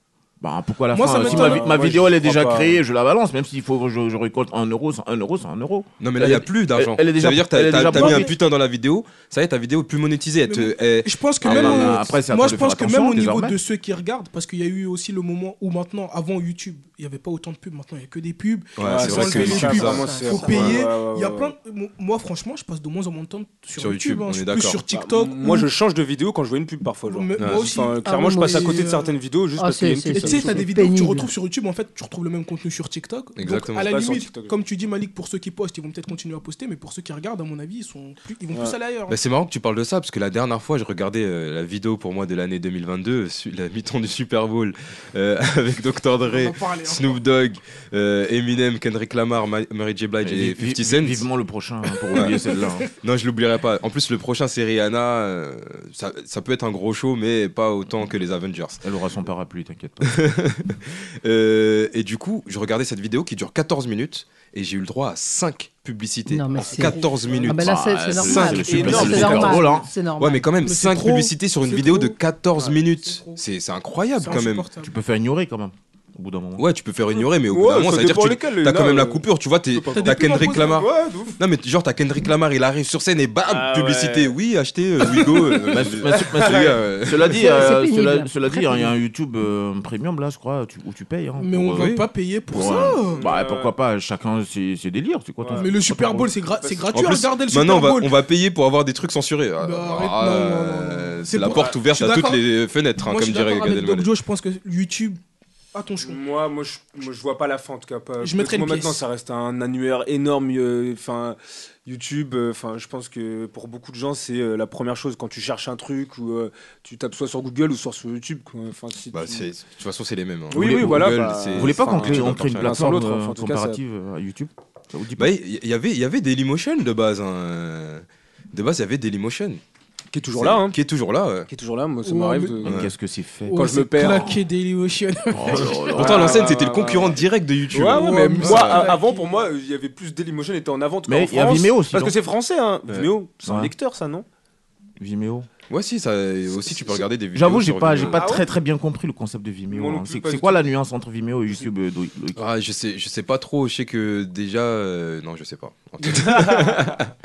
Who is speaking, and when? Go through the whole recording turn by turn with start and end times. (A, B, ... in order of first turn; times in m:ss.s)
0:00.4-0:08.3 A
0:00.9-0:01.9 B
0:01.1-0:02.8 C
0:06.0-0:12.1 D
0:07.8-0:08.3 B
0:10.5-0:25.7 B
0:11.4-0:13.6 A
0:18.8-0:20.8 D
0:18.8-0:21.5 C
0:20.0-0:20.4 E
0:23.8-0:24.8 D
0:24.9-0:30.7 C
0:27.1-0:29.2 B
0:27.4-0:27.7 D
0:28.0-0:28.8 E
0:29.6-0:31.3 E
0:30.1-0:39.2 B
0:33.4-0:33.9 D
0:33.8-0:34.5 C
0:39.1-0:51.3 D
0:46.2-0:47.2 B
0:50.2-0:52.9 A
0:52.1-0:52.4 D
0:52.2-0:52.9 B
0:53.0-0:58.8 D
0:58.8-1:00.2 A
1:00.0-1:09.6 D
1:06.3-1:10.5 E
1:06.8-1:07.6 B
1:07.6-1:09.9 A
1:08.6-1:09.8 C
1:10.2-1:14.7 D
1:10.6-1:13.4 B
1:14.2-1:14.9 B
1:14.8-1:16.7 A
1:16.6-1:20.9 D
1:17.4-1:21.4 C
1:19.9-1:20.9 B
1:21.4-1:27.4 D
1:23.4-1:24.4 C
1:25.0-1:26.8 C
1:25.7-1:32.0 A
1:27.4-1:28.9 E
1:31.4-1:33.2 B
1:31.8-1:32.1 D
1:32.5-1:36.3 A
1:33.1-1:33.7 C
1:35.4-1:35.7 C
1:35.6-1:38.1 B
1:36.6-1:36.9 C
1:36.9-1:44.1 D
1:39.6-1:42.4 B
1:41.5-1:41.8 C
1:43.0-1:45.2 B
1:45.7-1:46.2 B
1:46.0-1:59.5 C
1:48.2-1:49.0 B
1:59.1-2:02.9 D
2:00.5-2:03.8 C
2:00.5-2:05.4 A
2:05.2-2:09.6 D
2:10.1-2:10.8 C
2:10.3-2:11.5 D
2:11.5-2:12.8 C
2:12.0-2:12.6 B
2:12.6-2:14.2 A
2:13.5-2:16.0 B
2:13.5-2:14.4 C
2:15.3-2:16.4 A
2:16.0-2:24.3 C
2:16.0-2:18.9 D
2:17.9-2:19.4 B
2:21.1-2:22.2 A
2:23.4-2:23.7 A
2:25.0-2:25.5 A
2:25.7-2:28.2 D
2:27.3-2:32.4 A
2:28.0-2:28.5 C
2:29.7-2:30.6 C
2:32.4-2:37.1 D
2:36.0-2:37.0 C